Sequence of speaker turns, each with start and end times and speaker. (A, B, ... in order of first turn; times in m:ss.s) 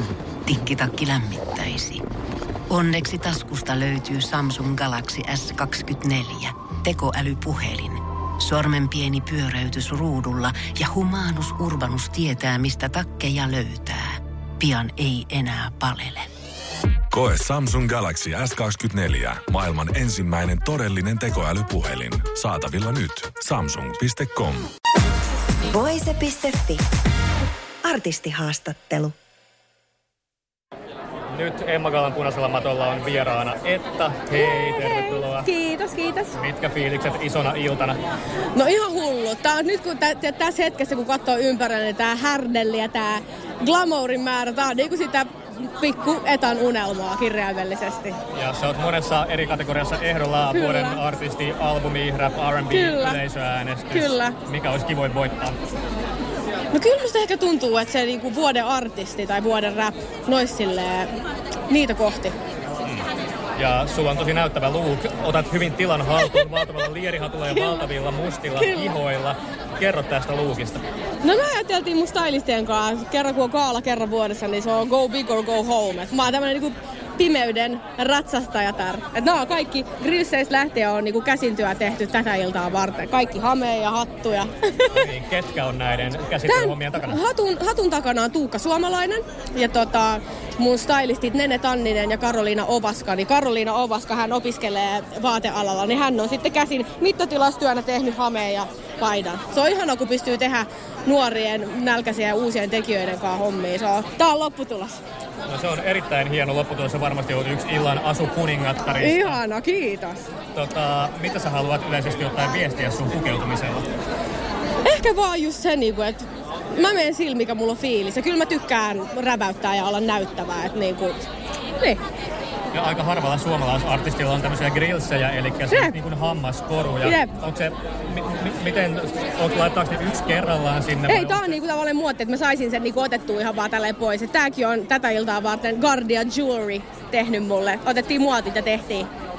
0:00.4-0:02.0 A
0:02.7-0:16.3 A
0:17.1-0:24.7 B
0:25.7-0:26.8 C
0:27.8-0:29.2 C
0:31.3-0:35.5 D
0:34.4-0:36.3 E
0:36.3-0:38.0 D
0:38.5-0:48.2 E
0:48.3-0:55.6 D
0:50.5-0:51.0 E
0:52.7-0:53.2 E
0:53.9-0:54.4 E
0:56.7-1:01.1 E
1:01.7-1:02.4 E
1:03.6-1:10.8 D
1:07.5-1:07.9 E
1:08.5-1:09.0 E
1:11.2-1:25.0 E
1:24.9-1:27.2 D
1:26.5-1:45.0 E
1:45.5-1:49.4 D
1:49.0-1:50.2 E
1:50.5-1:53.9 D
1:54.8-2:01.2 E
2:02.7-2:11.6 D
2:05.7-2:06.0 E
2:07.0-2:07.3 E
2:11.1-2:19.1 E